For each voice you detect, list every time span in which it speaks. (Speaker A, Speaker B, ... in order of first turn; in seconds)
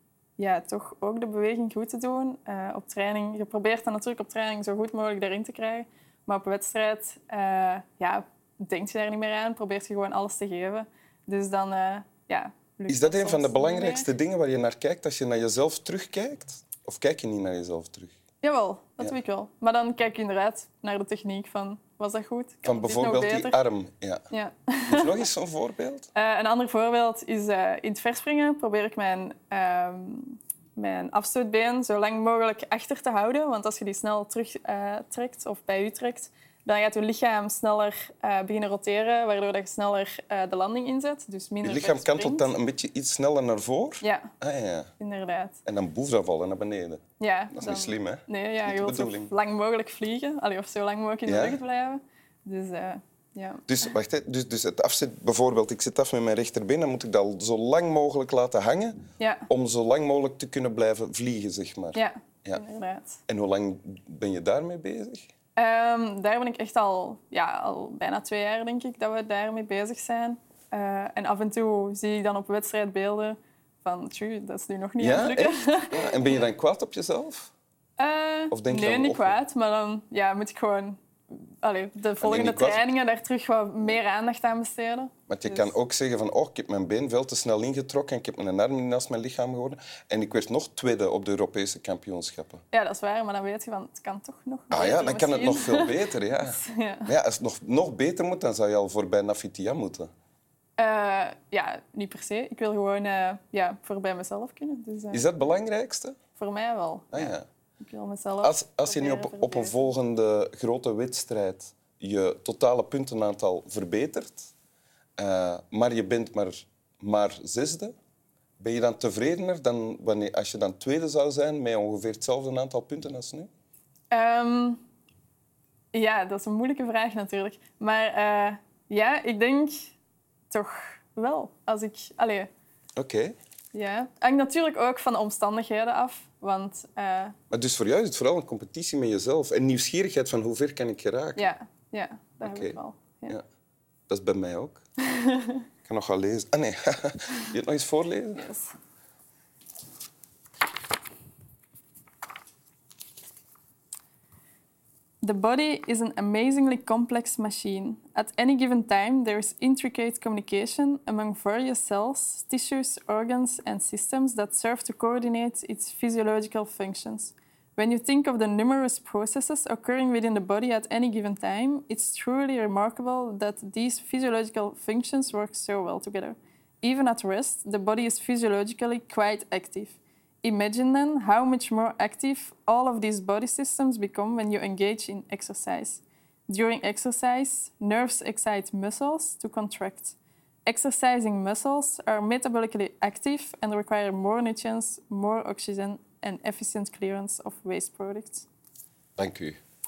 Speaker A: 0.4-14.1, 18.4-23.6, 24.3-25.2, 26.1-42.5, 44.0-44.3, 45.0-45.6, 47.2-53.6, 59.2-59.5, 61.9-63.2, 65.6-76.2, 78.0-85.7, 92.7-97.1, 100.8-105.4, 106.4-109.9, 124.1-124.8, 125.9-129.9, 130.5-132.5, 133.7-137.4, 141.4-143.4, 145.1-145.6, 148.4-148.8, 155.2-198.5
Speaker B: 12.9-18.1, 22.6-24.2, 24.9-26.1, 41.6-44.9, 45.6-49.3, 51.3-51.6, 53.7-62.6, 63.3-65.3, 75.0-77.5, 78.5-79.4, 82.2-82.9, 85.3-92.6, 94.7-100.1, 105.1-106.2, 107.1-107.5, 108.4-114.5, 115.2-117.9, 118.6-123.5, 133.0-133.4, 137.5-141.5, 142.4-143.4, 144.1-144.8, 145.8-148.5, 199.2-199.6